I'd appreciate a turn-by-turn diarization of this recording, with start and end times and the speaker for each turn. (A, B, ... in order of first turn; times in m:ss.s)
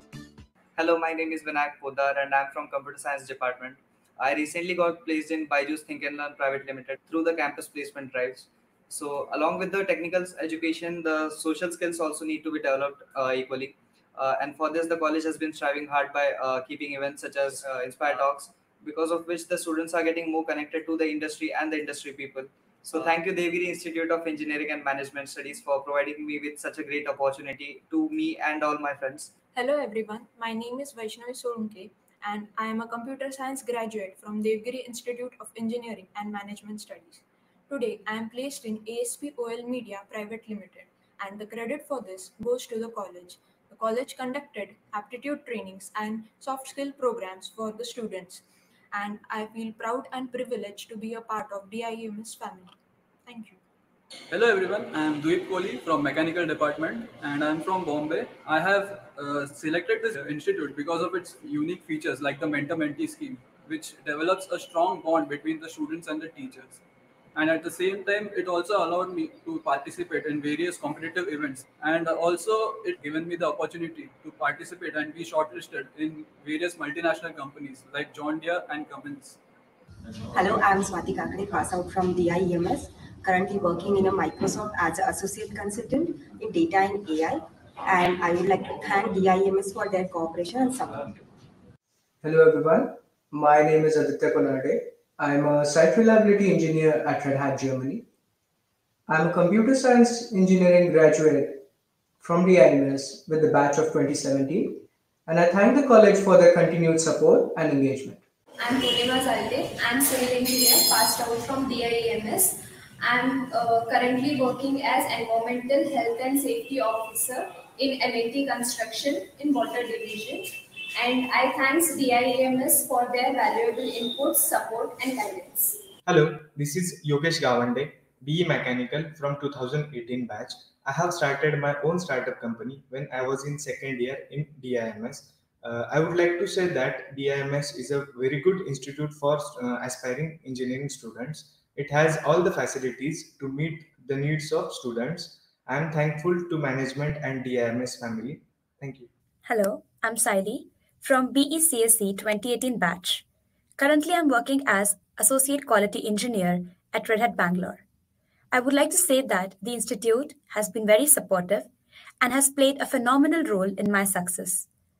0:00.8-0:29.3 A
0:29.5-0:52.7 B
0:53.2-0:53.6 B
0:54.3-1:06.8 C
1:07.3-1:19.4 C
1:20.3-1:31.2 D
1:32.2-1:38.0 E
1:39.1-1:41.6 E
1:42.2-1:48.2 E
1:48.6-2:05.8 F
2:06.1-2:29.1 G
2:29.4-2:33.2 H
2:33.8-2:37.8 H
2:38.5-2:41.7 H
2:42.2-2:44.7 H